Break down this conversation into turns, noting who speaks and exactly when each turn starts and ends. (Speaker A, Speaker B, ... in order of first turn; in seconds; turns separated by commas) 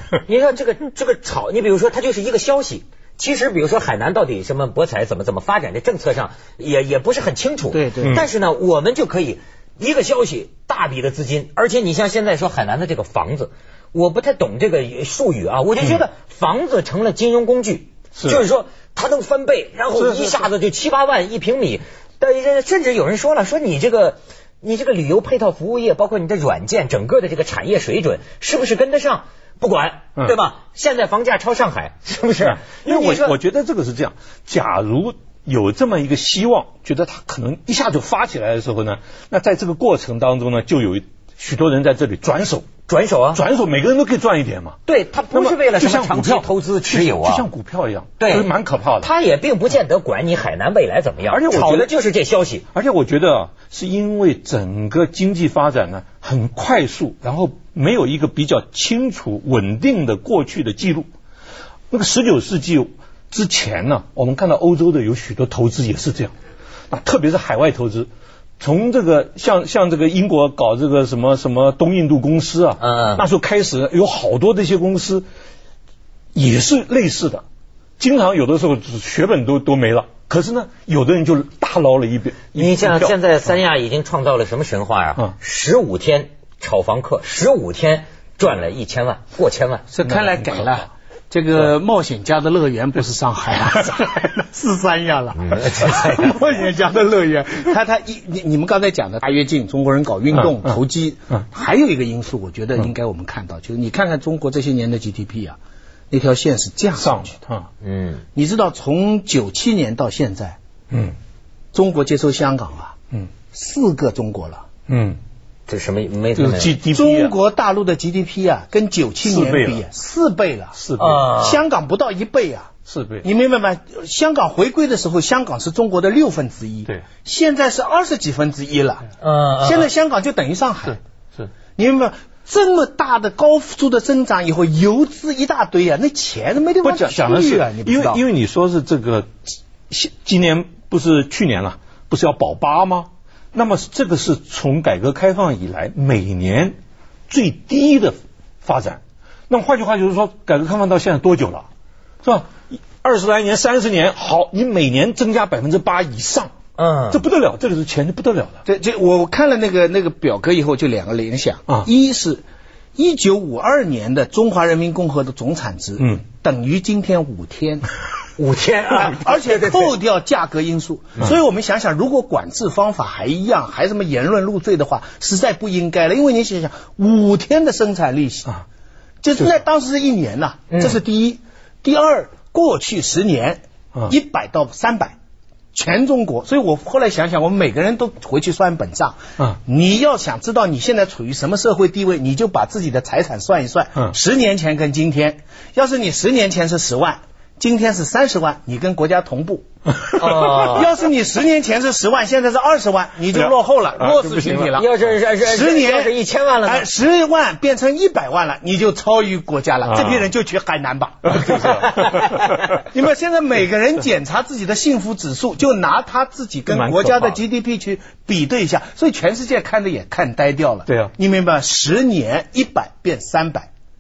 Speaker A: 0.2-33.4, Speaker B: 7.7-8.2, Speaker C: 8.0-8.3, Speaker C: 18.2-18.4, Speaker C: 19.9-20.5, Speaker C: 32.4-42.7, Speaker A: 42.9-43.4, Speaker C: 43.3-44.8, Speaker A: 44.9-47.5, Speaker C: 45.3-49.1, Speaker A: 48.2-52.6, Speaker C: 51.3-51.9, Speaker C: 52.7-61.1, Speaker C: 61.9-66.3, Speaker C: 66.9-75.2, Speaker A: 72.8-73.2, Speaker C: 76.3-77.4, Speaker C: 78.0-83.1, Speaker A: 82.5-89.8, Speaker B: 89.9-105.6, Speaker C: 90.0-90.5, Speaker A: 95.3-96.5, Speaker B: 106.1-107.4, Speaker C: 107.0-107.7, Speaker A: 107.8-108.2, Speaker B: 108.3-110.6, Speaker B: 111.7-113.0, Speaker B: 113.5-114.7, Speaker C: 114.9-115.2, Speaker A: 115.7-116.8, Speaker C: 116.4-117.3, Speaker B: 116.9-120.8, Speaker C: 119.2-119.8, Speaker C: 120.7-121.3, Speaker A: 121.0-121.6, Speaker B: 121.4-122.7, Speaker C: 122.9-123.3, Speaker B: 123.2-129.1, Speaker A: 129.2-129.9, Speaker B: 129.6-131.0, Speaker C: 130.8-131.5, Speaker B: 131.8-138.2, Speaker C: 136.8-146.8, Speaker C: 147.3-151.7, Speaker C: 152.2-156.5, Speaker A: 156.8-157.2, Speaker C: 157.1-158.6, Speaker B: 158.7-162.4, Speaker B: 163.0-167.9, Speaker A: 168.4-169.9, Speaker B: 168.9-178.6, Speaker B: 179.2-185.2, Speaker A: 180.7-181.0, Speaker B: 185.7-199.6, Speaker C: 200.0-200.8, Speaker A: 200.1-200.9, Speaker B: 200.7-211.4, Speaker C: 203.3-204.7, Speaker A: 204.7-206.9, Speaker C: 209.8-210.3, Speaker C: 211.2-212.8, Speaker A: 211.5-212.6, Speaker B: 212.9-223.7, Speaker C: 216.7-217.4, Speaker C: 220.9-221.1